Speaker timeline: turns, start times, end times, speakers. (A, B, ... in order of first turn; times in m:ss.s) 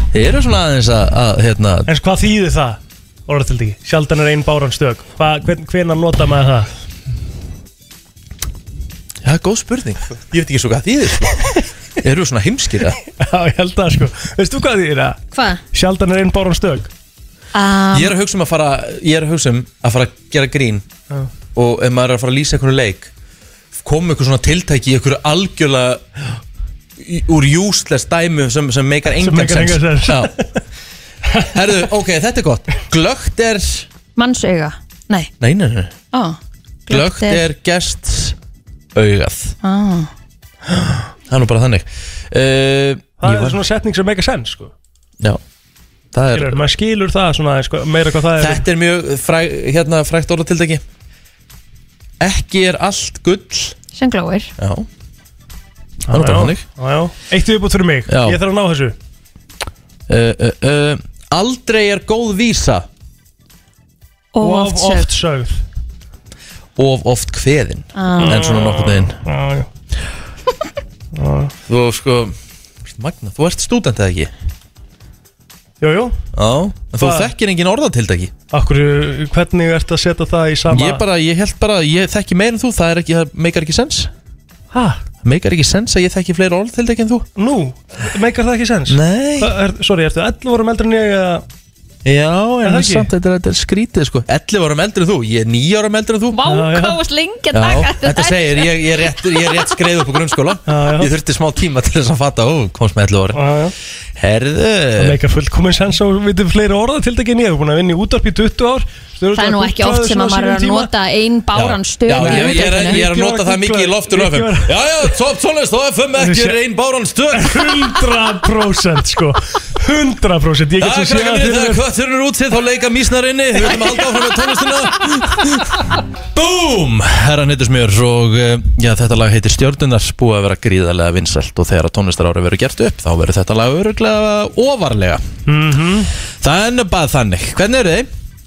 0:00.1-0:01.9 A
0:01.9-0:06.7 B
0:09.2-0:11.5 A
0:12.0-0:13.0 A
0:13.2-0:15.2 B
0:15.3-0:15.6 C
0:15.7-0:16.9 B
0:17.5-0:18.1 C
0:17.9-0:20.8 A
0:21.5-0:23.1 A
0:23.7-0:26.0 A
0:27.0-0:30.3 A
0:29.1-0:30.6 B
0:31.5-0:33.9 A
0:34.2-0:35.3 C
0:35.4-0:35.9 A
0:36.1-0:37.4 C
0:36.9-0:38.4 A
0:38.9-0:39.5 A
0:39.6-0:40.1 C
0:41.3-0:43.6 A
0:43.2-0:44.7 B
0:46.1-0:46.6 A
0:46.3-0:48.6 B
0:48.4-0:50.8 A
0:52.2-0:53.7 A
0:53.9-0:54.5 C
0:54.6-0:54.9 A
0:56.1-0:58.9 B
0:56.1-0:56.6 A
0:58.1-0:58.4 A
1:00.1-1:02.9 A
1:04.3-1:05.1 C
1:04.4-1:05.6 B
1:06.8-1:09.2 A
1:07.9-1:08.6 C
1:08.2-1:09.7 B
1:11.1-1:11.5 B
1:11.7-1:14.3 A
1:15.8-1:16.2 B
1:16.3-1:18.3 A
1:17.0-1:17.3 B
1:18.5-1:21.0 B
1:20.7-1:24.1 A
1:24.7-1:25.0 B
1:25.2-1:27.2 A
1:27.4-1:31.4 B
1:28.9-1:29.5 A
1:32.0-1:36.4 A
1:32.6-1:33.1 B
1:36.3-1:38.7 C
1:36.4-1:37.0 B
1:37.5-1:43.4 A
1:39.3-1:39.6 C
1:40.7-1:41.1 B
1:43.3-1:43.7 B
1:44.2-1:45.2 A
1:45.0-1:50.9 B
1:49.3-1:53.0 C
1:51.5-1:58.0 A
1:52.1-1:55.0 B
1:56.2-1:56.6 B
1:57.3-2:01.8 B
2:00.8-2:15.2 A
2:15.5-2:16.1 B
2:16.4-2:18.1 A